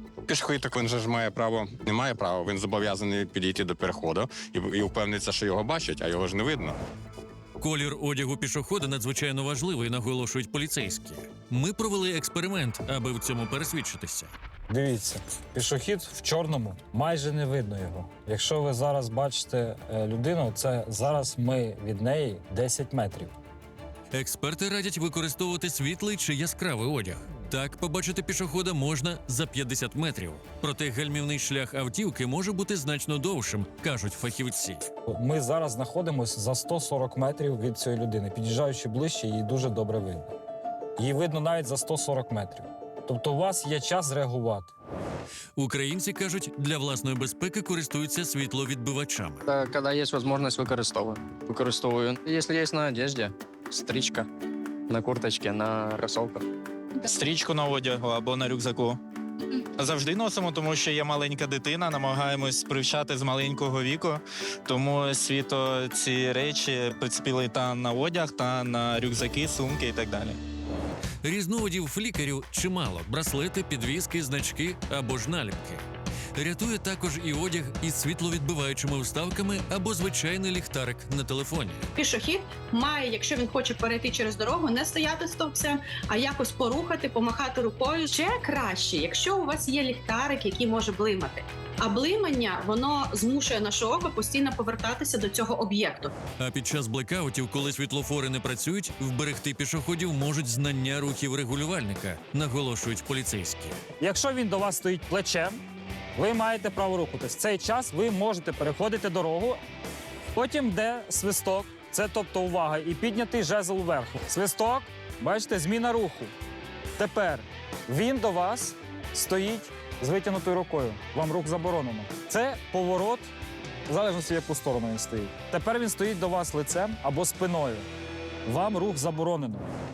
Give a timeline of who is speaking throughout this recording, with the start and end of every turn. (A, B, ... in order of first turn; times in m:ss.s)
0:00.3-0:06.8 A
0:07.6-0:14.3 B
0:14.7-0:23.3 C
0:24.1-0:34.8 B
0:35.1-0:40.3 C
0:41.0-0:44.7 C
0:45.6-0:49.5 B
0:49.5-0:54.3 D
0:54.9-0:56.4 D
0:57.0-0:59.0 E
0:59.8-1:10.4 E
1:11.2-1:15.8 B
1:16.4-1:21.9 B
1:22.0-1:36.1 F
1:36.4-1:43.8 B
1:44.0-1:45.6 C
1:46.2-1:49.6 C
1:50.3-1:56.3 C
1:57.0-2:03.3 C
2:03.9-2:07.9 C
2:08.5-2:09.7 C